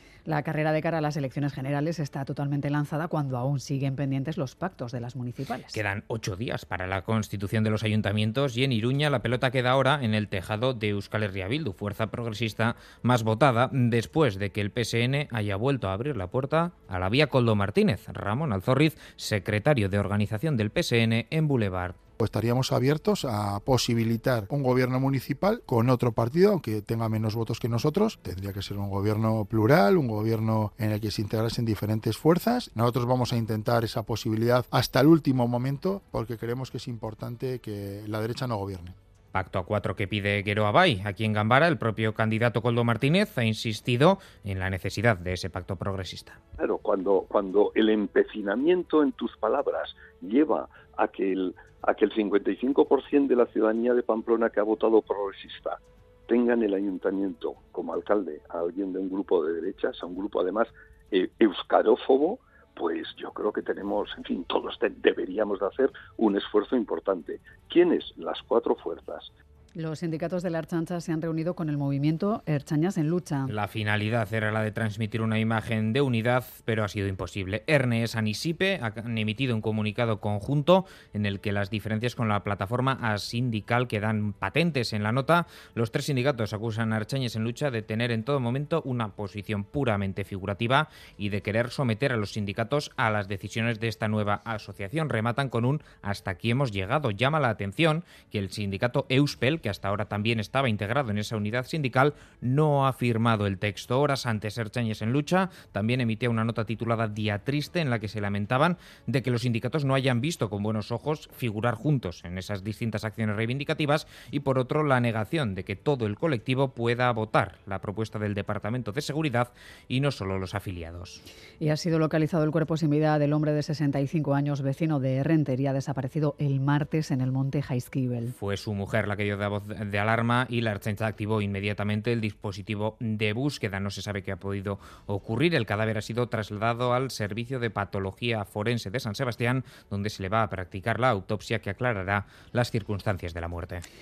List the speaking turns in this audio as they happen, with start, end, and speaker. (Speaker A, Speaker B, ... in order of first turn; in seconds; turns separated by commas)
Speaker A: 0.2-5.8, Speaker B: 5.7-21.9, Speaker C: 22.2-38.9, Speaker B: 39.3-46.4, Speaker D: 46.6-69.3, Speaker A: 69.8-73.5, Speaker B: 73.5-121.2, Speaker A: 121.6-128.3, Speaker B: 128.3-143.8